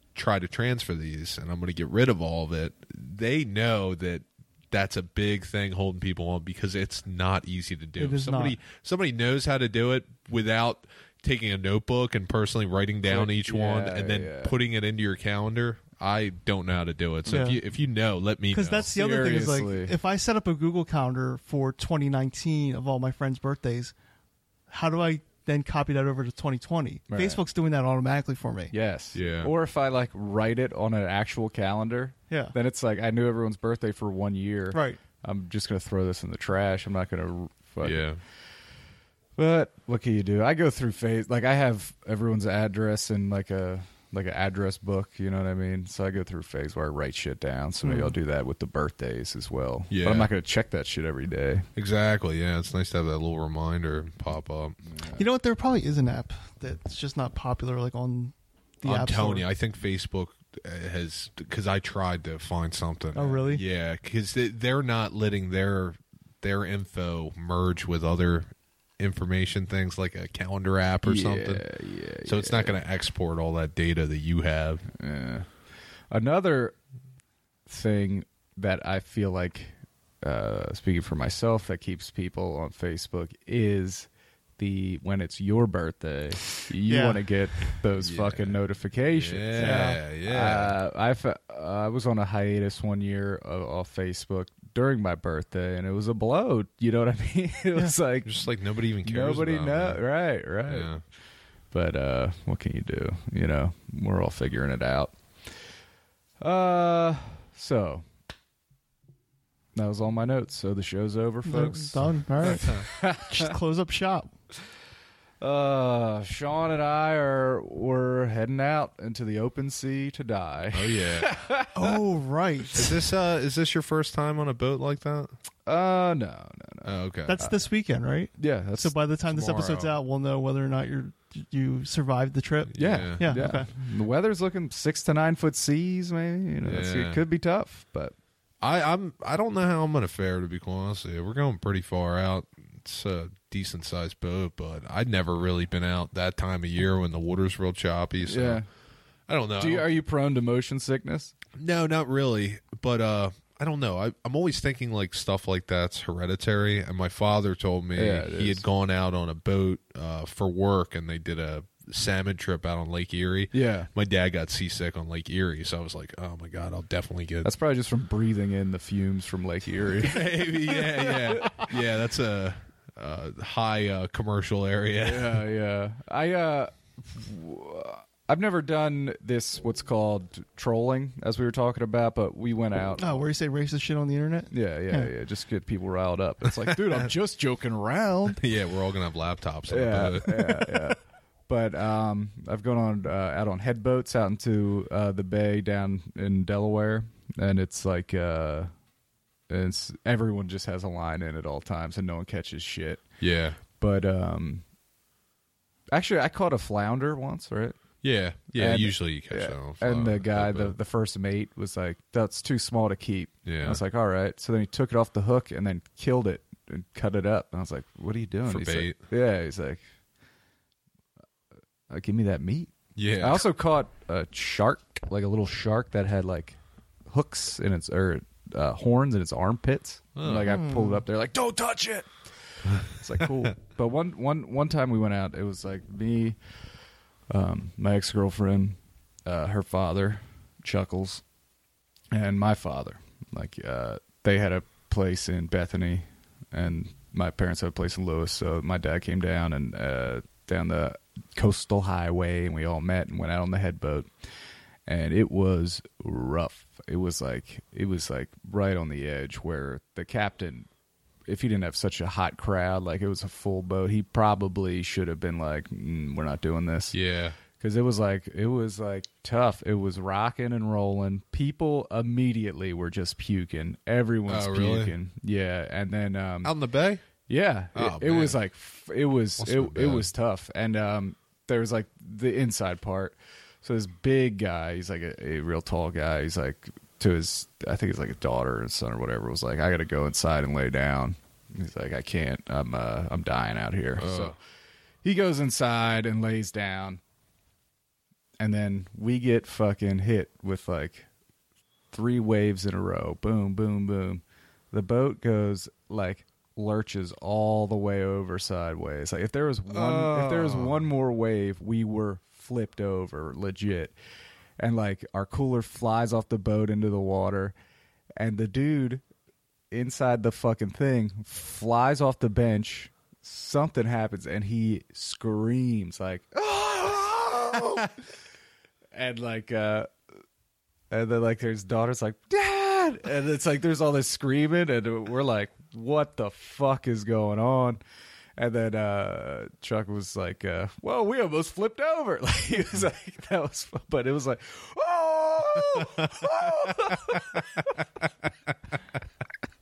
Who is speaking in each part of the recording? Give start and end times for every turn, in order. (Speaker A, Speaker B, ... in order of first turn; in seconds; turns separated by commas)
Speaker A: 0.1-18.9, Speaker B: 8.0-8.6, Speaker C: 13.1-14.5, Speaker B: 17.3-17.6, Speaker B: 18.5-23.9, Speaker C: 18.9-19.9, Speaker B: 24.7-28.7, Speaker C: 27.1-27.4, Speaker C: 28.7-38.1, Speaker A: 29.1-29.5, Speaker B: 34.7-35.0, Speaker A: 37.8-38.2, Speaker C: 39.4-51.7, Speaker B: 47.8-48.1, Speaker A: 49.9-50.3, Speaker A: 51.8-54.8, Speaker C: 54.9-55.2, Speaker B: 55.2-59.5, Speaker A: 58.8-71.6, Speaker B: 63.1-63.6, Speaker C: 71.0-72.8, Speaker A: 72.2-74.8, Speaker C: 74.9-75.5, Speaker C: 76.1-76.8, Speaker C: 77.7-98.4, Speaker B: 86.8-87.2, Speaker A: 88.0-88.6, Speaker A: 89.1-90.8, Speaker B: 89.6-90.0, Speaker A: 98.2-100.0, Speaker C: 99.0-100.9, Speaker A: 100.7-101.0, Speaker C: 101.7-105.2, Speaker C: 106.4-108.0, Speaker C: 109.7-113.5, Speaker B: 111.4-114.3, Speaker A: 112.4-112.8, Speaker C: 115.4-121.9, Speaker A: 120.7-121.3, Speaker B: 121.7-122.8, Speaker A: 122.7-125.3, Speaker C: 125.7-127.5, Speaker A: 126.8-127.4, Speaker B: 127.2-133.7, Speaker C: 128.4-128.9, Speaker A: 129.3-129.9, Speaker A: 132.7-133.3, Speaker C: 132.8-138.1, Speaker A: 136.6-137.2, Speaker A: 138.6-148.6, Speaker C: 148.2-148.7, Speaker A: 149.3-149.9, Speaker C: 149.6-151.3, Speaker A: 151.6-167.5, Speaker C: 157.9-158.6, Speaker C: 163.5-163.9, Speaker C: 167.4-171.7, Speaker A: 170.0-175.4, Speaker C: 175.0-183.2, Speaker B: 183.0-185.1, Speaker C: 184.5-188.4, Speaker A: 186.5-187.1, Speaker A: 188.3-190.9, Speaker C: 189.7-198.7, Speaker C: 199.5-203.0, Speaker A: 203.2-203.6, Speaker C: 203.8-204.6, Speaker C: 205.9-207.8, Speaker A: 208.0-210.8, Speaker C: 208.5-219.8, Speaker A: 213.4-213.8, Speaker A: 218.5-219.0, Speaker C: 221.9-232.1, Speaker A: 222.9-223.4, Speaker A: 230.2-230.6, Speaker B: 230.4-231.0, Speaker C: 232.8-236.4, Speaker C: 237.3-241.2, Speaker C: 242.1-254.1, Speaker C: 254.8-260.7, Speaker C: 261.3-266.9, Speaker A: 266.9-267.4, Speaker C: 267.6-276.5, Speaker A: 274.3-274.9, Speaker A: 276.4-277.0, Speaker C: 277.3-294.4, Speaker A: 277.7-278.4, Speaker A: 279.4-280.1, Speaker A: 294.0-294.3, Speaker C: 295.0-297.0, Speaker C: 298.4-301.1, Speaker C: 301.9-313.9, Speaker A: 309.7-310.9, Speaker C: 314.6-317.5, Speaker C: 318.2-319.0, Speaker C: 319.7-327.9, Speaker C: 328.9-329.9, Speaker C: 330.9-337.8, Speaker C: 338.4-347.7, Speaker A: 345.7-346.1, Speaker A: 347.1-347.6